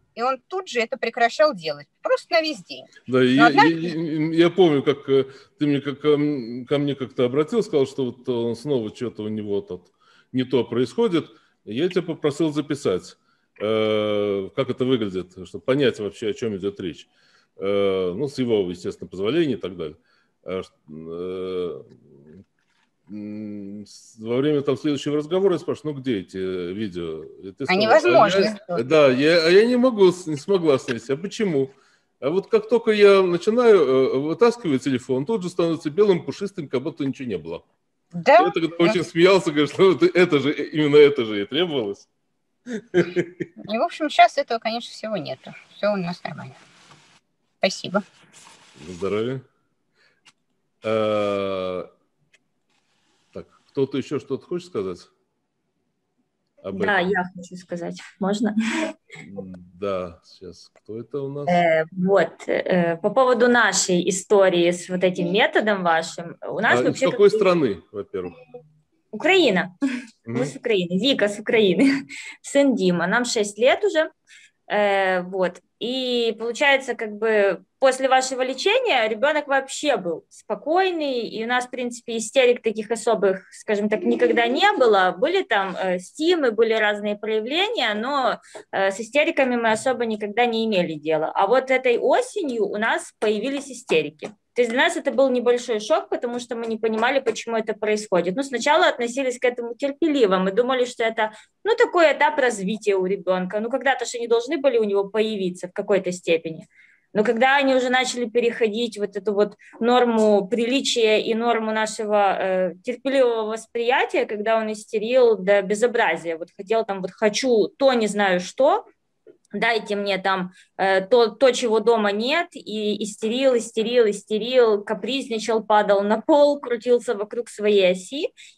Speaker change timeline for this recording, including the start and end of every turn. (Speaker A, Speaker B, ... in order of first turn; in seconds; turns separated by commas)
Speaker A: 0.1-3.9, Speaker B: 3.1-21.9, Speaker B: 23.1-37.6, Speaker A: 27.7-28.8, Speaker A: 38.2-39.0, Speaker B: 38.4-42.1, Speaker B: 42.8-43.5, Speaker A: 43.6-46.6, Speaker A: 47.6-48.0, Speaker B: 48.8-49.4, Speaker B: 50.8-51.9, Speaker B: 53.3-55.1, Speaker B: 56.6-57.1, Speaker C: 56.7-58.9, Speaker B: 59.2-61.6, Speaker C: 61.5-67.5, Speaker B: 66.7-68.3, Speaker C: 69.1-69.7, Speaker B: 70.3-70.5, Speaker C: 70.3-71.9, Speaker C: 72.4-74.1, Speaker C: 74.7-118.8, Speaker C: 119.5-128.3